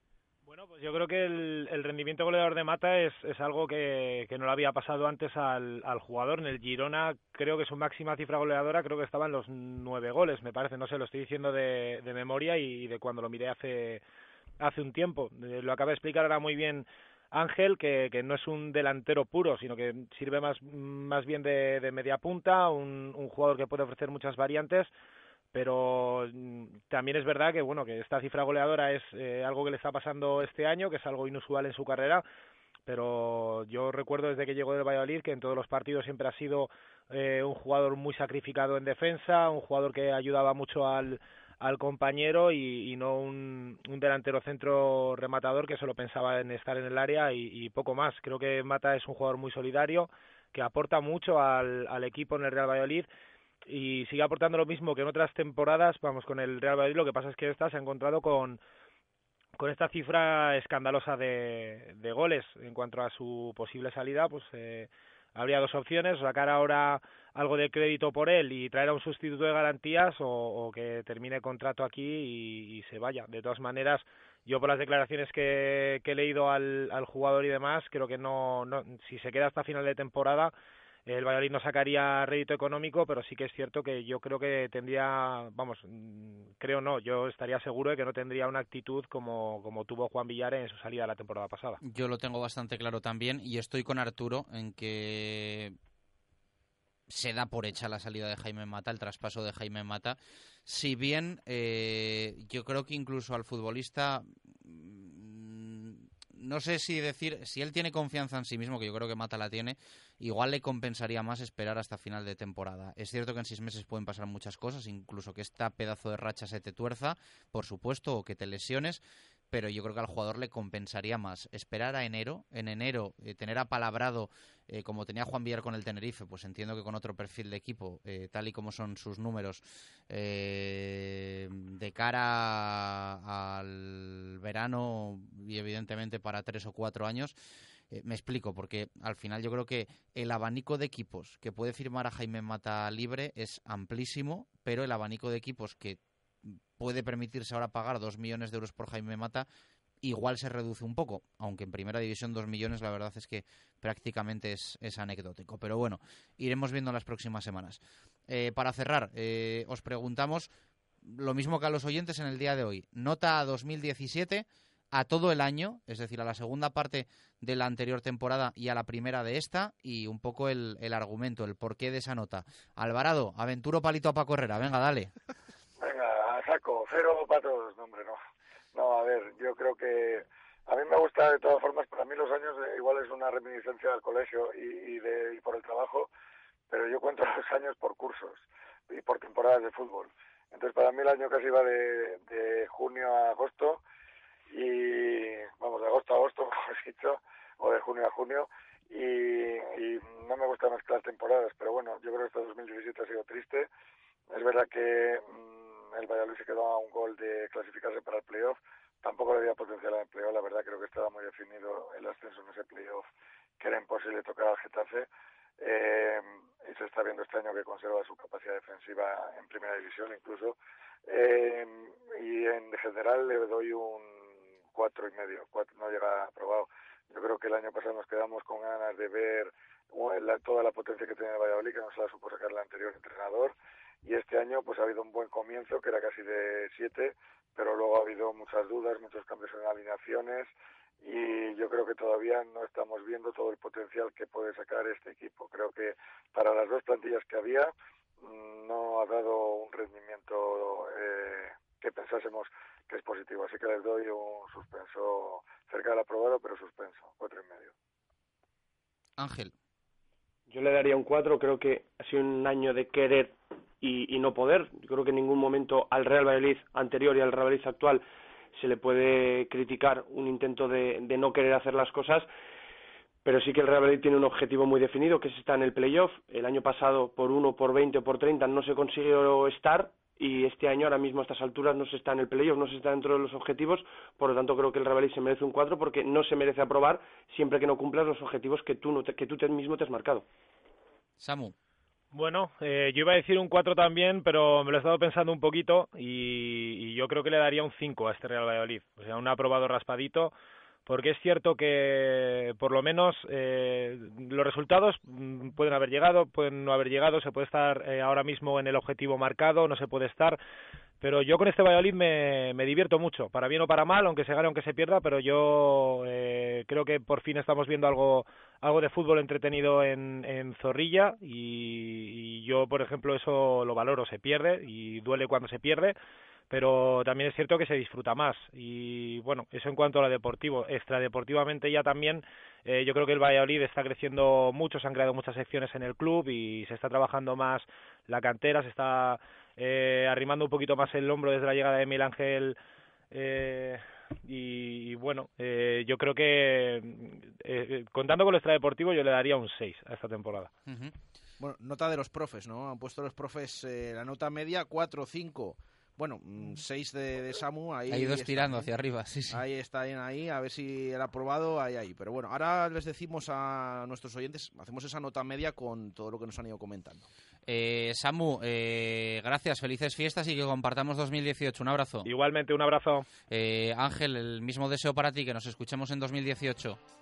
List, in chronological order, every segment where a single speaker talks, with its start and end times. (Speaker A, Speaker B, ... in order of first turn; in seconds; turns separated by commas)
Speaker A: 0.5-14.0, Speaker A: 14.6-24.9, Speaker A: 25.5-32.2, Speaker A: 32.9-53.1, Speaker A: 53.7-58.6, Speaker A: 59.6-80.5, Speaker A: 81.1-91.8, Speaker B: 91.8-95.8, Speaker B: 97.1-137.4, Speaker B: 137.9-149.5, Speaker B: 150.0-160.5, Speaker B: 161.1-175.1, Speaker C: 175.8-178.2, Speaker C: 178.7-186.1, Speaker C: 186.7-193.8, Speaker C: 194.5-203.7, Speaker C: 204.3-213.1, Speaker C: 213.6-215.1, Speaker C: 215.6-220.6, Speaker C: 221.1-257.7, Speaker B: 259.2-259.5, Speaker D: 260.5-268.0, Speaker D: 268.6-272.3, Speaker D: 273.2-290.2, Speaker B: 291.2-291.5, Speaker A: 292.1-300.3, Speaker A: 300.9-310.4, Speaker A: 311.0-326.0, Speaker A: 326.5-342.6, Speaker A: 343.1-350.5, Speaker B: 350.7-350.9, Speaker E: 351.4-358.7, Speaker B: 357.9-359.4, Speaker E: 359.3-367.1, Speaker B: 367.5-372.1, Speaker A: 372.1-373.1, Speaker B: 373.3-376.8